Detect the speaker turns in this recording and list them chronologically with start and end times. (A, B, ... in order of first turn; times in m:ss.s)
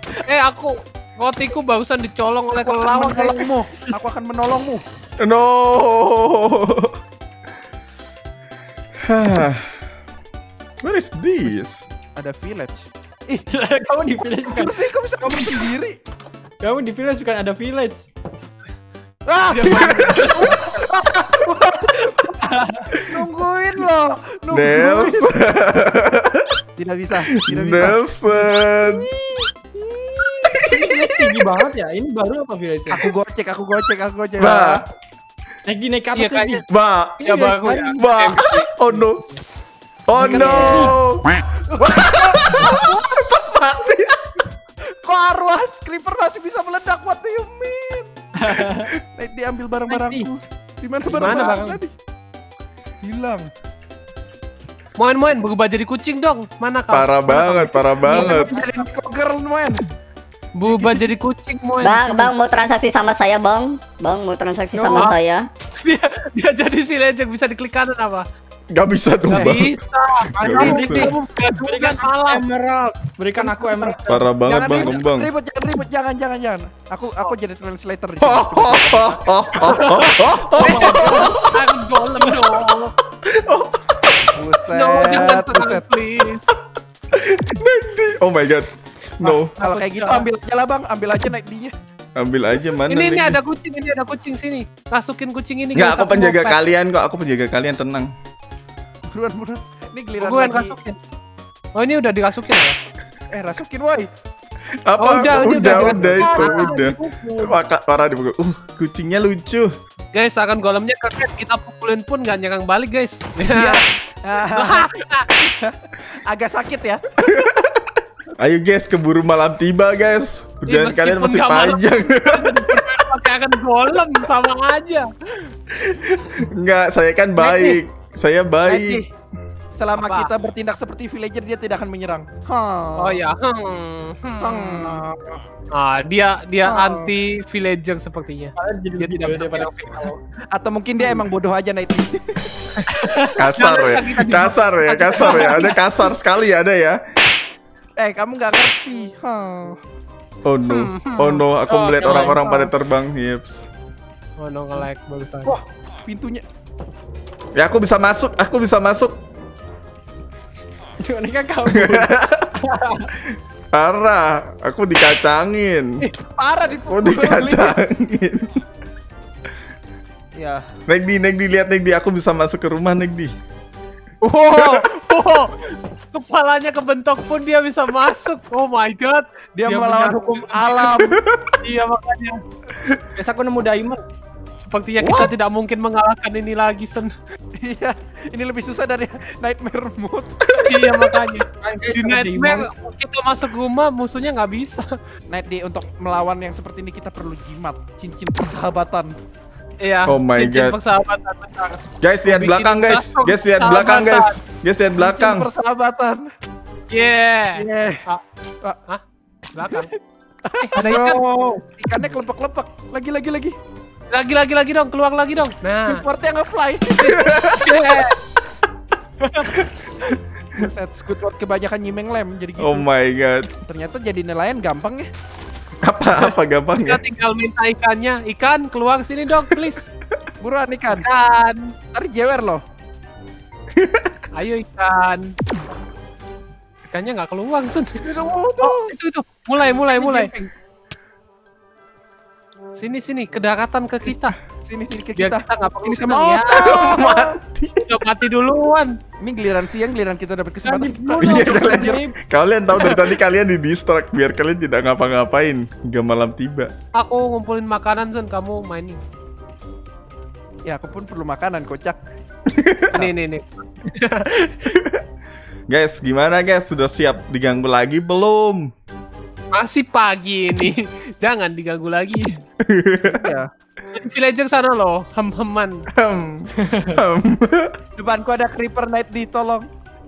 0:00.2-0:03.5 A
0:02.6-0:04.8 B
0:05.2-0:07.0 C
0:09.0-0:09.7 C
0:10.8-0:11.8 C
0:12.2-0:13.4 B
0:13.5-0:15.5 D
0:14.5-0:16.0 B
0:16.6-0:18.1 D
0:19.2-0:22.4 B
0:19.5-0:20.5 A
0:19.6-0:20.5 D
0:21.9-0:23.0 D
0:23.0-0:25.3 B
0:24.5-0:26.5 C
0:26.8-0:28.0 B
0:27.2-0:29.1 C
0:30.5-0:31.2 C
0:30.7-0:33.1 D
0:32.9-0:34.8 B
0:34.4-0:34.8 C
0:35.6-0:36.6 D
0:36.1-0:36.6 A
0:36.7-0:37.4 C
0:37.2-0:38.7 A
0:37.2-0:37.9 D
0:38.0-0:39.2 C
0:40.1-0:44.2 C
0:40.2-0:41.0 D
0:40.2-0:40.9 B
0:41.7-0:43.3 B
0:44.8-0:51.9 B
0:48.4-0:48.9 D
0:49.9-0:50.3 D
0:51.1-0:51.8 D
0:51.1-0:51.8 A
0:53.0-0:53.5 B
0:55.0-0:58.5 A
0:56.9-0:58.5 C
0:58.0-0:59.8 B
1:00.5-1:02.3 A
1:00.6-1:01.0 B
1:01.8-1:05.5 E
1:04.8-1:05.1 B
1:04.8-1:05.2 A
1:05.8-1:08.2 A
1:08.7-1:09.7 C
1:09.3-1:12.4 A
1:10.3-1:14.2 D
1:10.4-1:11.1 C
1:13.4-1:13.9 A
1:13.4-1:19.4 B
1:14.1-1:15.3 C
1:18.2-1:21.6 C
1:19.6-1:22.9 A
1:20.5-1:21.4 D
1:22.2-1:22.5 D
1:23.2-1:23.8 C
1:24.3-1:25.8 B
1:24.7-1:26.4 A
1:27.1-1:28.7 C
1:29.2-1:29.5 C
1:29.2-1:31.7 B
1:29.6-1:30.2 A
1:32.2-1:33.4 C
1:32.9-1:36.6 A
1:35.7-1:38.1 C
1:39.1-1:40.8 B
1:40.2-1:41.0 A
1:41.7-1:42.8 A
1:43.3-1:44.1 B
1:44.8-1:49.7 C
1:45.0-1:47.0 A
1:45.2-1:46.7 B
1:45.7-1:46.0 D
1:50.1-1:53.8 A
1:53.5-1:57.0 B
1:54.5-1:55.3 A
1:57.2-1:57.7 C
1:58.4-2:02.8 C
2:00.7-2:05.1 A
2:05.7-2:09.0 C
2:07.4-2:07.8 B
2:08.6-2:09.1 B
2:09.7-2:13.2 B
2:10.0-2:10.3 A
2:13.0-2:15.0 A
2:14.4-2:15.4 B
2:15.7-2:20.1 A
2:16.6-2:17.1 B
2:18.6-2:20.2 D
2:20.5-2:22.5 B
2:22.9-2:23.4 D
2:23.4-2:27.0 C
2:23.6-2:25.8 A
2:28.0-2:29.8 B
2:30.4-2:33.6 C
2:30.7-2:31.4 A
2:31.6-2:32.4 D
2:32.0-2:32.7 B
2:34.4-2:35.5 A
2:35.4-2:36.4 B
2:37.6-2:39.2 C
2:41.0-2:43.1 D
2:41.7-2:42.5 C
2:43.7-2:46.0 C
2:46.0-2:47.8 B
2:46.9-2:48.6 C
2:50.4-2:50.6 B
2:50.9-2:53.3 C
2:54.2-3:01.0 A
2:54.4-2:54.8 B
2:59.6-3:01.2 B
2:59.7-3:00.2 D
3:01.6-3:02.4 A
3:03.1-3:04.0 D
3:04.6-3:07.1 A
3:05.0-3:05.3 C
3:07.6-3:11.0 B
3:10.6-3:14.9 A
3:11.6-3:12.7 D
3:15.3-3:19.1 B
3:19.8-3:24.4 A
3:20.1-3:20.8 C
3:22.0-3:25.5 C
3:25.0-3:26.3 B
3:26.9-3:28.2 A
3:27.6-3:28.0 B
3:29.5-3:29.9 A
3:30.4-3:31.1 B
3:30.6-3:31.2 A
3:30.8-3:31.6 D
3:31.8-3:33.6 B
3:34.1-3:36.0 A
3:35.8-3:37.4 B
3:37.0-3:38.1 A
3:37.2-3:37.6 C
3:40.5-3:42.9 B
3:42.6-3:43.5 C
3:43.7-3:45.1 B
3:45.8-3:47.0 C
3:46.8-3:49.9 A
3:50.4-3:51.1 B
3:51.0-3:51.7 A
3:51.9-3:52.6 B
3:53.8-3:54.1 C
3:54.3-3:55.3 A
3:56.9-4:00.3 A
3:58.0-3:58.9 B
3:59.9-4:00.5 B
4:02.8-4:04.3 A
4:04.6-4:07.2 B
4:05.2-4:07.1 A
4:06.5-4:07.8 C
4:07.8-4:09.0 A
4:09.2-4:12.0 B
4:10.6-4:12.1 D
4:11.2-4:16.7 C
4:16.9-4:19.0 A
4:20.6-4:22.0 B
4:22.5-4:23.1 C
4:22.9-4:24.7 A
4:24.7-4:25.0 C
4:25.7-4:28.7 C
4:29.5-4:32.4 A
4:32.6-4:33.2 C
4:33.0-4:33.5 B
4:33.9-4:35.8 A
4:35.9-4:37.7 C
4:36.6-4:37.0 D
4:38.0-4:39.7 B